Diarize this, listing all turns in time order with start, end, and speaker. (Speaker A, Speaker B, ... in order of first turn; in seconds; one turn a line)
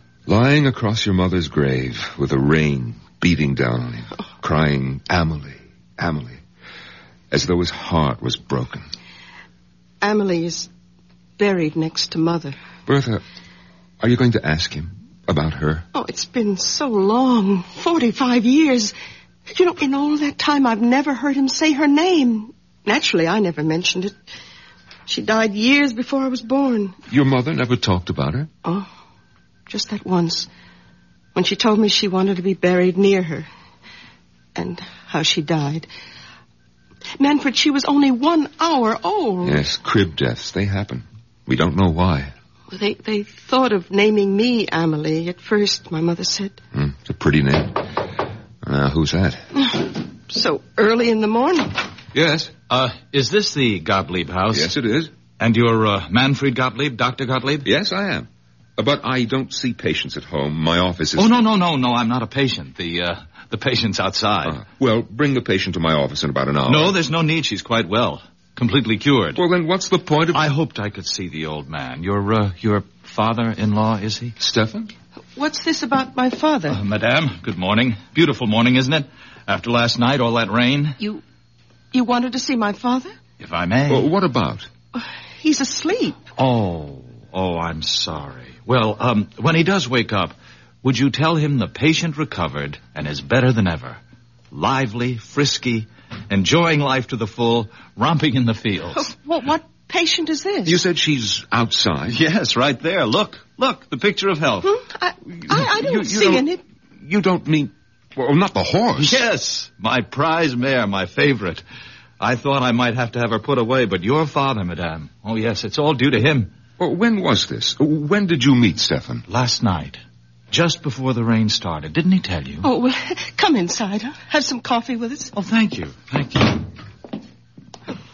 Speaker A: 0.3-6.4
Speaker A: 7.3-8.9
Speaker B: 10.0-10.7
Speaker B: 11.4-12.6
Speaker A: 12.9-13.2
Speaker A: 14.0-15.9
Speaker B: 15.9-18.9
Speaker B: 19.5-24.1
Speaker B: 25.1-26.9
Speaker A: 27.1-28.5
Speaker B: 28.6-28.9
Speaker B: 29.7-30.5
Speaker B: 31.4-33.5
Speaker B: 34.5-35.9
Speaker B: 37.2-39.6
Speaker A: 39.4-42.3
Speaker B: 42.7-46.6
Speaker A: 46.7-48.0
Speaker A: 48.6-49.5
Speaker B: 49.5-51.8
Speaker A: 52.1-52.5
Speaker C: 52.7-54.7
Speaker A: 54.5-55.1
Speaker C: 55.4-57.7
Speaker A: 57.6-61.4
Speaker C: 61.2-64.6
Speaker A: 64.5-67.0
Speaker C: 66.7-69.4
Speaker A: 69.4-70.5
Speaker C: 70.3-74.4
Speaker A: 74.4-74.9
Speaker B: 75.4-76.8
Speaker C: 76.7-81.0
Speaker B: 81.9-83.1
Speaker C: 83.4-84.1
Speaker A: 83.9-84.7
Speaker B: 84.9-86.2
Speaker C: 86.4-94.0
Speaker C: 94.5-99.1
Speaker B: 99.0-100.8
Speaker A: 100.7-102.2
Speaker C: 102.1-104.7
Speaker B: 104.6-106.6
Speaker A: 105.4-106.5
Speaker A: 107.0-109.2
Speaker C: 109.0-111.6
Speaker C: 112.2-116.5
Speaker A: 116.8-119.2
Speaker C: 119.3-122.7
Speaker B: 122.6-125.3
Speaker C: 125.4-126.7